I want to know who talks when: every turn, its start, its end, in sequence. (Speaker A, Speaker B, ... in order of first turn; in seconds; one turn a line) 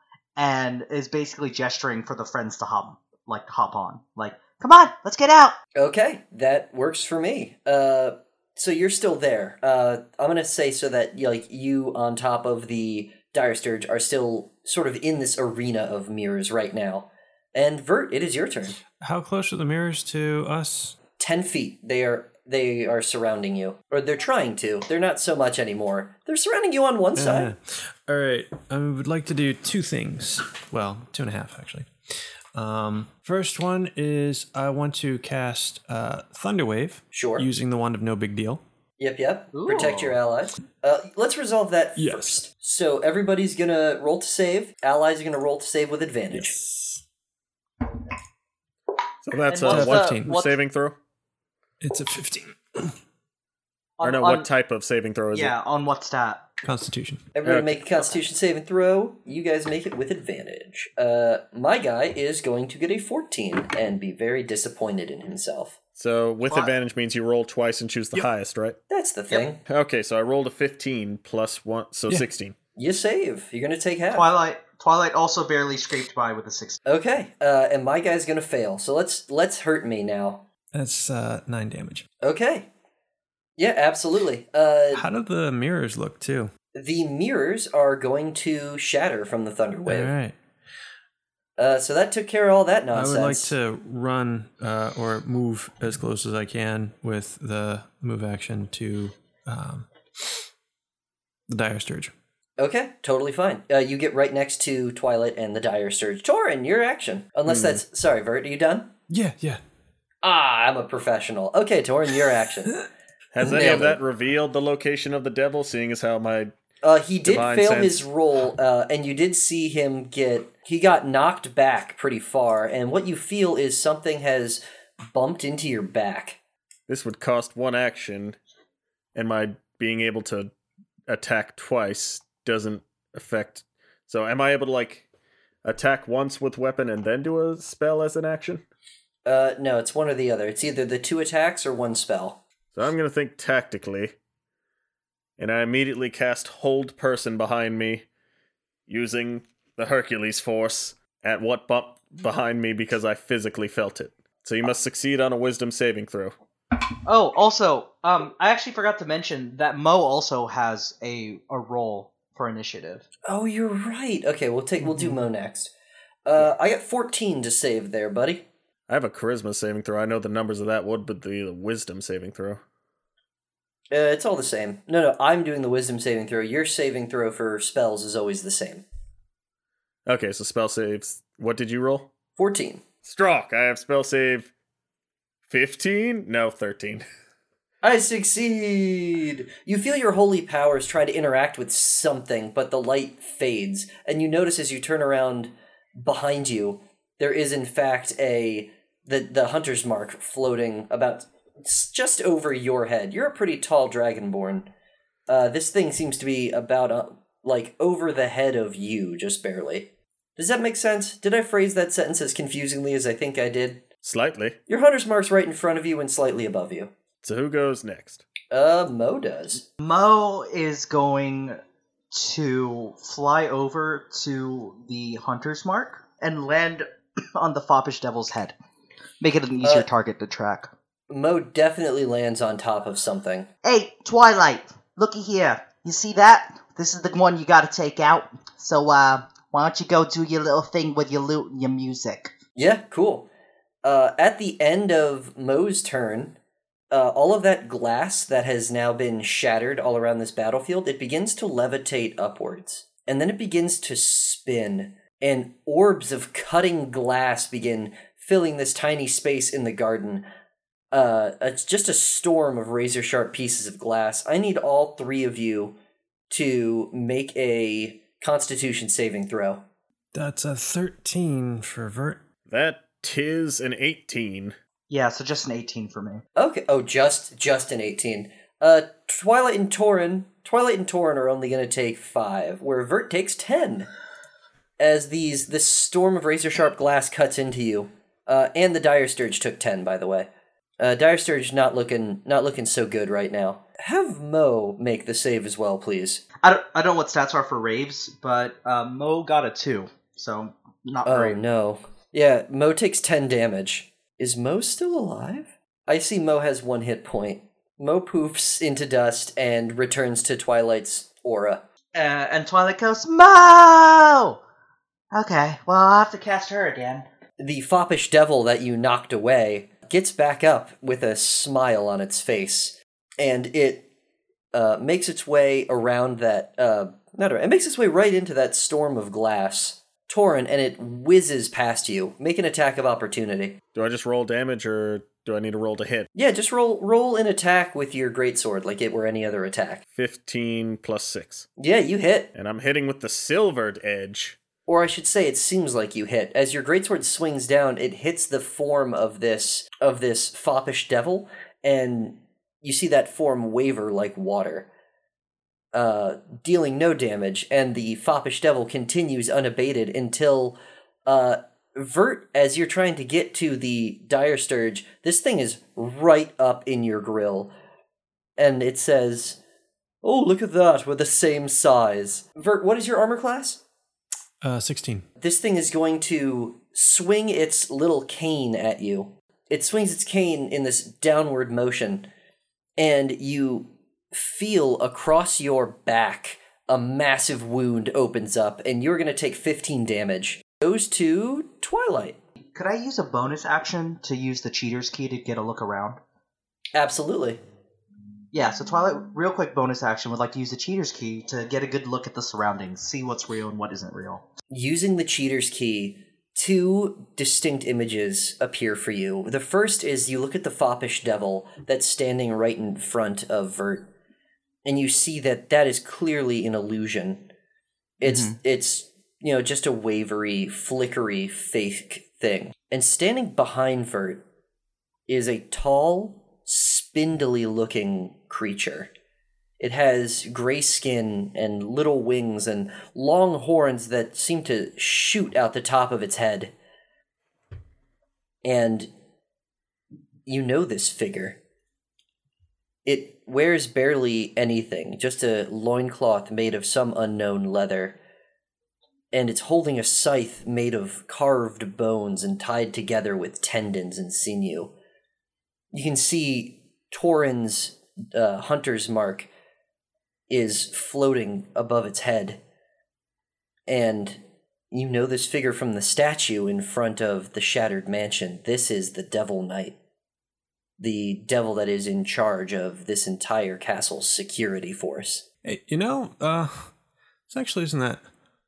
Speaker A: 0.3-5.5
Speaker B: 5.7-18.8
Speaker C: 18.9-21.0
Speaker B: 21.2-27.5
Speaker C: 27.1-31.9
Speaker C: 32.5-38.6
Speaker B: 37.1-37.5
Speaker B: 39.0-46.5
Speaker A: 39.5-40.2
Speaker C: 42.0-42.4
Speaker C: 46.3-47.0
Speaker D: 49.2-51.0
Speaker A: 49.5-50.5
Speaker C: 49.6-50.4
Speaker C: 51.8-53.0
Speaker A: 54.0-54.5
Speaker D: 54.0-55.5
Speaker A: 55.3-56.5
Speaker C: 56.6-57.3
Speaker B: 57.3-65.8
Speaker D: 57.4-57.8
Speaker D: 66.0-68.8
Speaker A: 66.5-66.7
Speaker B: 68.9-69.6
Speaker D: 69.7-72.5
Speaker B: 72.8-74.3
Speaker A: 74.1-76.8
Speaker B: 76.8-80.5
Speaker C: 80.7-82.1
Speaker B: 82.2-82.7
Speaker B: 83.6-85.0
Speaker C: 84.9-86.5
Speaker B: 86.7-90.1
Speaker C: 89.8-90.3
Speaker B: 91.6-93.5
Speaker C: 92.9-100.4
Speaker C: 101.5-102.1
Speaker B: 102.6-108.9
Speaker D: 107.5-107.8
Speaker C: 109.1-109.6
Speaker B: 110.2-112.8
Speaker D: 113.3-116.5
Speaker B: 113.4-114.0
Speaker B: 116.8-124.6
Speaker D: 117.2-118.0
Speaker B: 125.1-126.4
Speaker D: 126.9-128.4
Speaker D: 129.1-130.5
Speaker D: 131.1-135.0
Speaker D: 135.6-138.6
Speaker B: 139.2-142.4
Speaker D: 142.7-144.1
Speaker D: 145.4-148.1
Speaker D: 148.9-156.3
Speaker A: 157.0-163.1
Speaker B: 163.3-165.7
Speaker B: 166.2-168.5
Speaker D: 168.9-172.6
Speaker B: 173.9-178.8
Speaker D: 180.1-182.1
Speaker B: 182.4-182.8
Speaker D: 183.0-184.5
Speaker D: 185.5-187.0
Speaker B: 187.8-204.7
Speaker B: 205.3-213.8
Speaker D: 214.0-214.6
Speaker B: 214.7-216.9
Speaker D: 217.2-218.2
Speaker B: 218.5-219.6
Speaker A: 219.8-221.6
Speaker A: 222.1-228.6
Speaker A: 229.2-230.7
Speaker B: 231.1-233.5
Speaker A: 233.6-242.3
Speaker B: 242.6-243.3
Speaker B: 243.8-246.4
Speaker B: 246.9-260.2
Speaker B: 260.9-265.8
Speaker B: 266.3-269.6
Speaker C: 270.1-272.2
Speaker D: 272.5-274.5
Speaker A: 274.9-276.2
Speaker B: 276.3-283.9
Speaker B: 284.8-296.2
Speaker A: 296.4-301.4
Speaker B: 301.0-311.6
Speaker A: 311.9-314.4
Speaker A: 315.1-317.1
Speaker B: 317.4-323.9
Speaker B: 324.5-333.6
Speaker D: 333.7-336.1
Speaker B: 336.1-339.8
Speaker D: 339.9-341.5
Speaker B: 341.6-342.3
Speaker D: 342.3-344.4
Speaker B: 344.6-354.7
Speaker B: 355.7-367.5
Speaker B: 368.4-369.4
Speaker B: 370.0-373.6
Speaker C: 374.4-375.1
Speaker B: 375.2-382.1
Speaker B: 382.8-392.2
Speaker A: 392.5-396.0
Speaker B: 396.7-397.4
Speaker A: 398.3-404.2
Speaker B: 404.5-413.9
Speaker B: 414.6-417.3
Speaker B: 418.0-424.2
Speaker A: 418.0-418.4
Speaker B: 425.1-428.9
Speaker B: 429.6-436.5
Speaker B: 438.4-438.9
Speaker B: 440.3-441.4
Speaker B: 442.9-448.0
Speaker B: 449.1-454.7
Speaker B: 455.7-459.3
Speaker B: 460.3-462.4
Speaker B: 463.7-469.8
Speaker B: 470.8-475.2
Speaker C: 475.4-476.7
Speaker C: 477.3-478.0